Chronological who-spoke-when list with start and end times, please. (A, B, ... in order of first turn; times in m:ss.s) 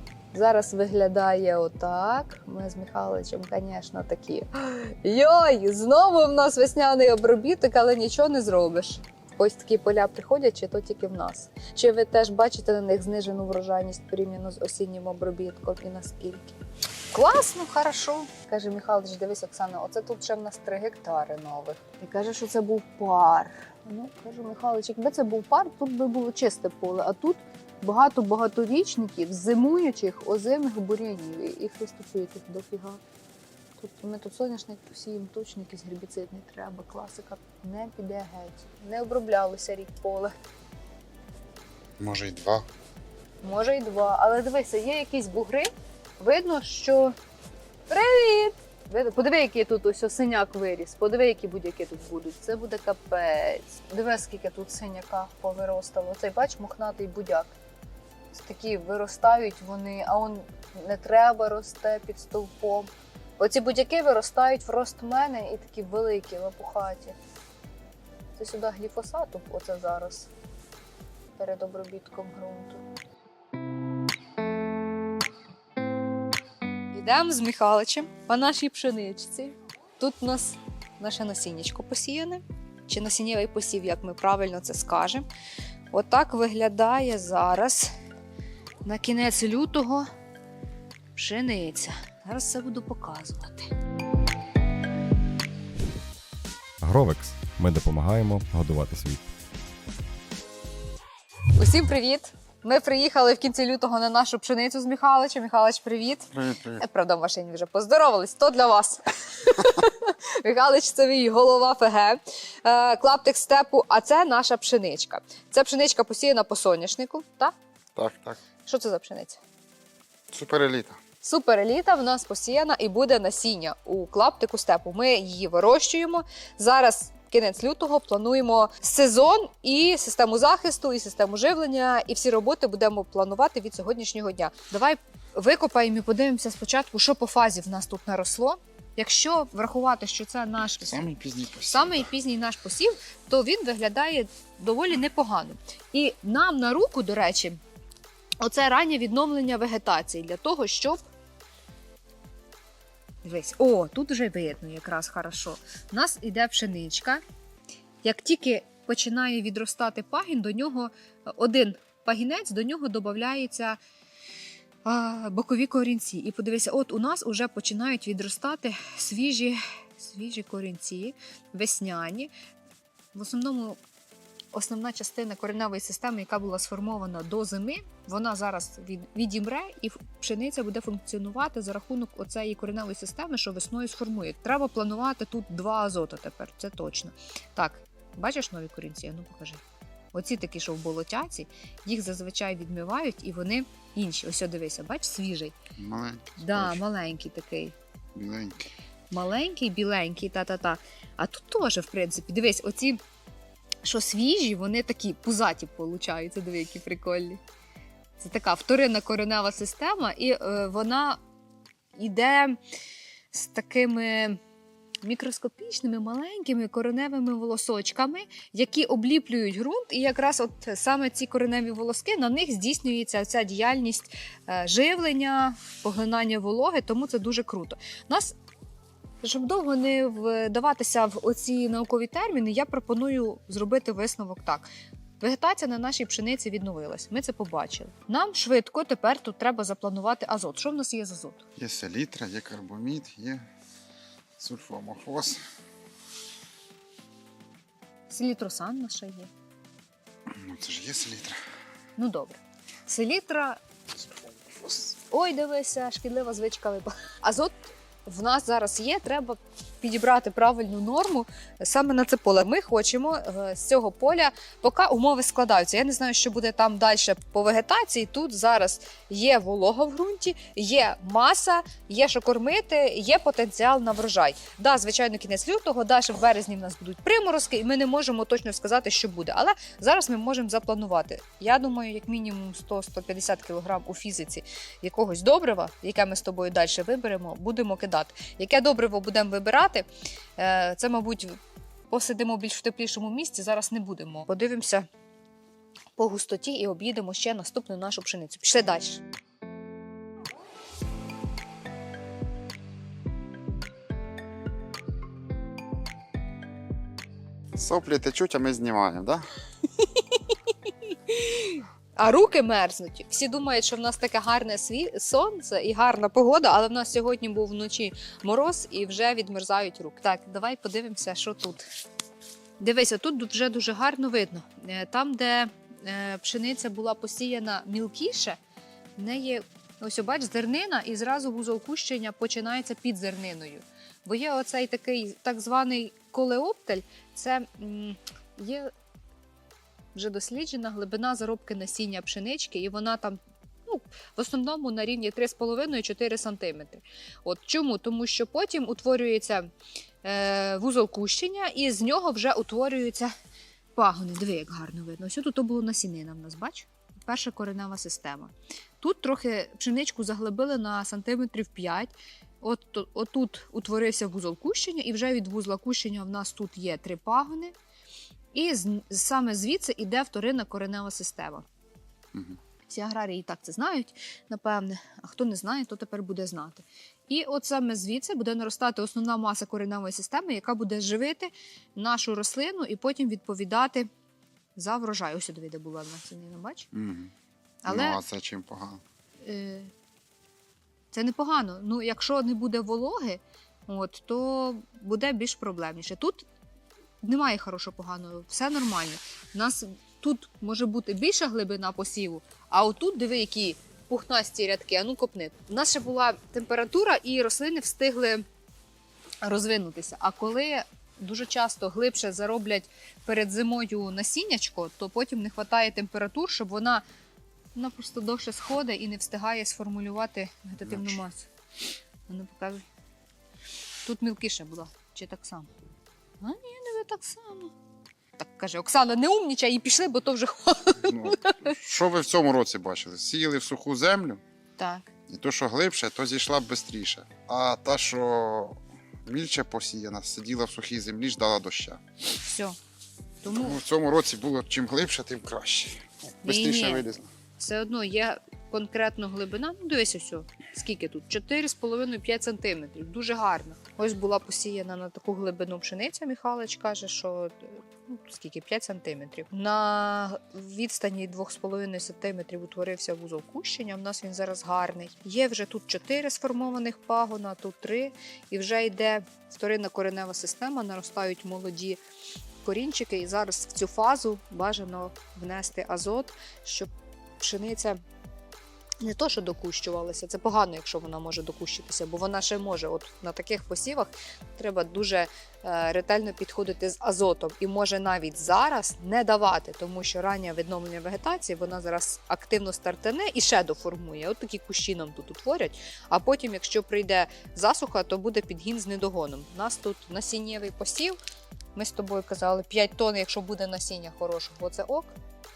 0:00.3-0:16.6 A
0:17.1-0:33.0 A
0:33.8-0:40.3 A
0:42.0-0:42.6 B
0:43.4-0:45.7 A
0:46.2-0:47.1 A
0:47.9-0:57.5 A
0:58.3-1:07.2 A
1:08.3-1:10.3 A
1:11.3-1:12.8 A
1:16.9-1:25.2 A
1:25.9-1:27.9 A
1:28.8-1:30.1 A
1:31.1-1:33.7 A
1:36.8-1:39.2 C
1:41.5-1:57.5 A
1:46.3-1:46.8 B
1:57.9-1:58.4 B
1:58.6-1:59.4 A
2:00.3-2:01.0 B
2:01.2-2:21.1 A
2:20.8-2:22.1 B
2:21.7-2:27.6 A
2:28.4-2:31.0 A
2:33.2-2:37.2 A
2:38.0-2:43.8 A
2:44.8-2:52.3 A
2:53.1-2:53.8 A
2:54.5-3:09.6 A
3:10.1-3:15.5 A
3:15.8-3:16.8 B
3:16.4-3:17.8 A
3:18.1-3:18.7 B
3:19.1-3:23.0 A
3:23.8-3:27.4 A
3:28.2-3:31.2 A
3:32.0-3:32.6 A
3:33.3-3:34.4 A
3:35.0-3:48.3 A
3:49.2-3:54.7 A
3:55.2-4:01.4 A
4:01.6-4:03.4 B
4:04.4-4:05.4 B
4:08.1-4:09.3 A
4:10.3-4:11.4 B
4:12.0-4:13.6 A
4:14.0-4:14.9 B
4:15.1-4:51.4 A
4:51.9-4:54.9 A
4:56.0-4:59.0 A
5:07.5-5:09.2 B
5:09.8-5:10.3 A
5:10.9-5:21.6 A
5:22.6-5:28.4 A
5:29.0-5:38.7 A
5:39.9-5:49.5 A
5:50.0-5:53.1 A
5:53.7-6:07.5 A
6:08.3-6:11.4 A
6:12.7-6:23.9 A
6:24.6-6:26.7 A
6:26.7-6:27.1 B
6:27.6-6:28.0 A
6:27.7-6:28.8 B
6:29.2-6:29.7 A
6:30.9-6:36.2 A
6:37.0-6:48.2 A
6:49.2-6:56.8 A
6:57.5-7:01.2 A
7:00.6-7:01.0 B
7:02.1-7:02.6 A
7:03.8-7:05.5 A
7:06.2-7:07.5 A
7:08.2-7:11.5 A
7:10.8-7:14.2 B
7:14.6-7:14.9 A
7:15.1-7:21.8 B
7:22.2-7:22.6 A
7:23.2-7:23.6 A
7:23.3-7:27.1 B
7:26.2-7:26.8 A
7:27.4-7:51.8 A
7:52.4-7:57.8 A
7:58.8-8:21.0 A
8:21.5-8:24.9 A